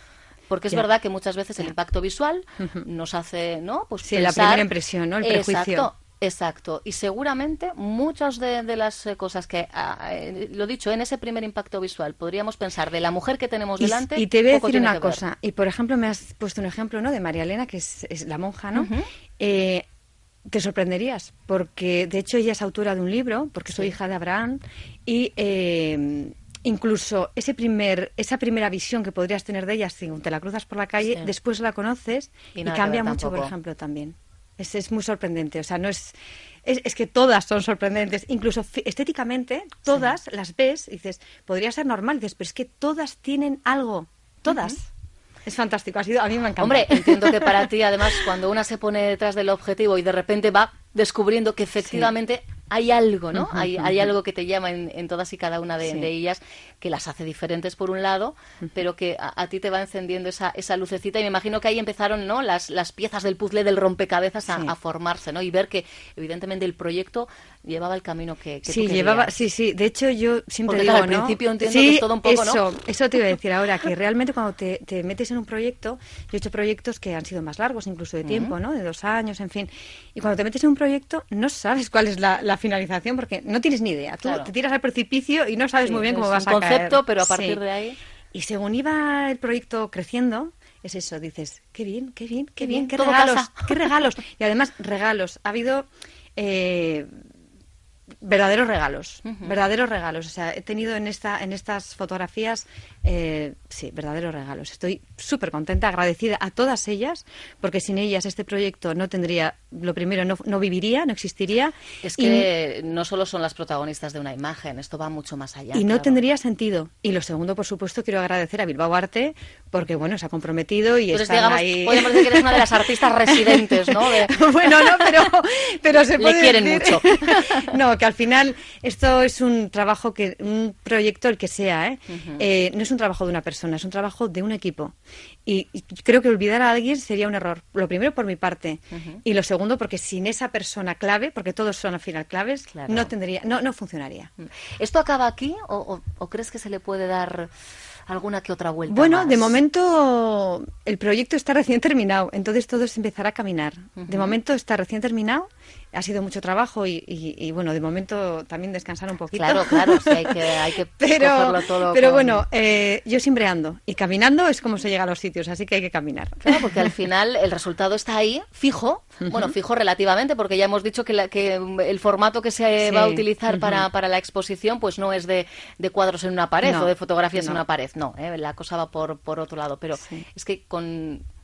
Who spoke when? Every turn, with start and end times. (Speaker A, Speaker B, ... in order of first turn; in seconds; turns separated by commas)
Speaker A: 0.5-4.7, Speaker B: 2.6-2.8, Speaker B: 4.0-5.9, Speaker A: 5.2-15.2, Speaker B: 13.8-19.8, Speaker A: 18.7-19.1, Speaker B: 20.5-44.9, Speaker A: 31.0-31.3, Speaker A: 32.5-33.5, Speaker A: 44.5-44.8, Speaker B: 45.5-48.1, Speaker A: 46.6-69.3, Speaker B: 51.8-52.1, Speaker B: 53.3-54.1, Speaker B: 55.8-56.1, Speaker B: 64.5-64.7, Speaker B: 68.7-87.6, Speaker A: 70.7-72.6, Speaker A: 78.2-78.5, Speaker A: 84.2-84.5, Speaker A: 85.8-88.0, Speaker B: 88.3-97.1, Speaker A: 92.6-93.9, Speaker B: 98.2-112.5, Speaker A: 99.2-99.5, Speaker A: 112.0-116.2, Speaker B: 115.7-134.9, Speaker A: 121.1-125.3, Speaker A: 126.1-127.7, Speaker A: 132.1-132.4, Speaker B: 135.4-144.3, Speaker A: 138.9-139.2, Speaker A: 142.7-143.1, Speaker A: 144.4-147.5, Speaker A: 148.1-149.6, Speaker B: 148.9-166.9, Speaker A: 154.0-154.4, Speaker A: 159.3-162.4, Speaker A: 166.4-181.2, Speaker B: 172.8-173.8, Speaker B: 176.6-177.6, Speaker B: 180.0-180.2